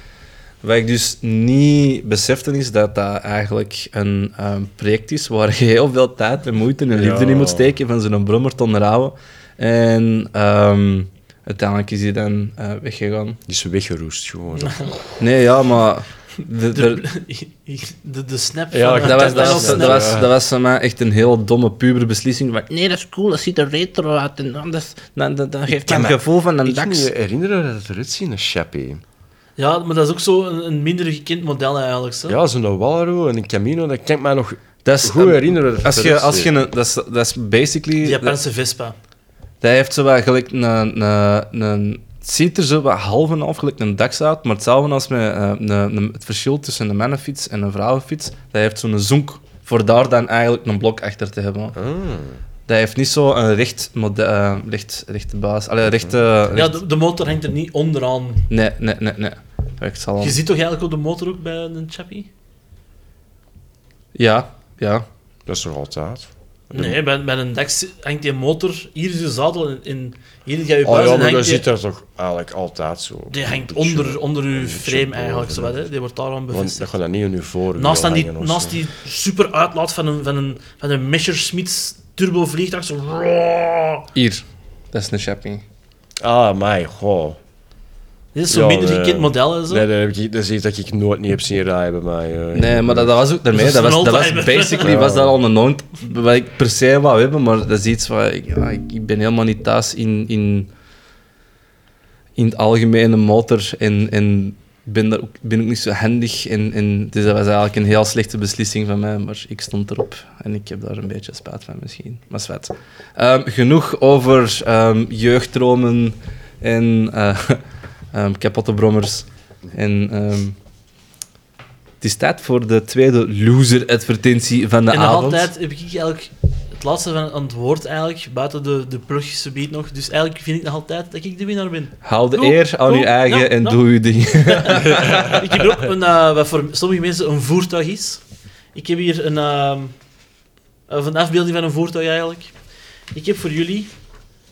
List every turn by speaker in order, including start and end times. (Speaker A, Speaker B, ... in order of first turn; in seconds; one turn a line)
Speaker A: 0.6-13.4
Speaker B: 6.9-7.7
Speaker B: 13.5-15.0
Speaker A: 15.2-17.0
Speaker C: 16.7-20.1
Speaker B: 18.7-20.3
Speaker A: 19.0-22.7
Speaker D: 22.7-26.0
Speaker A: 25.2-27.1
Speaker B: 25.7-29.0
Speaker C: 29.6-32.4
Speaker B: 32.3-36.5
Speaker A: 34.8-38.4
Speaker C: 38.0-39.0
Speaker A: 39.6-51.8
Speaker B: 51.8-52.4
Speaker A: 52.7-56.8
Speaker C: 56.5-58.5
Speaker A: 58.5-60.4
Speaker C: 60.2-62.3
Speaker A: 64.1-65.0
Speaker B: 65.5-67.0
Speaker C: 66.7-71.6
Speaker B: 70.8-75.8
Speaker C: 73.3-76.9
Speaker B: 76.5-78.8
Speaker C: 77.8-84.0
Speaker A: 84.1-85.6
Speaker B: 86.2-87.4
Speaker C: 88.3-89.8
Speaker B: 88.5-93.2
Speaker A: 92.5-100.7
Speaker C: 93.5-94.9
Speaker B: 94.8-95.3
Speaker A: 102.3-117.6
Speaker A: 118.1-120.6
Speaker A: 122.0-125.5
Speaker C: 124.9-138.2
Speaker A: 132.0-135.3
Speaker B: 134.9-135.4
Speaker C: 138.7-139.9
Speaker C: 140.9-142.6
Speaker C: 143.1-143.9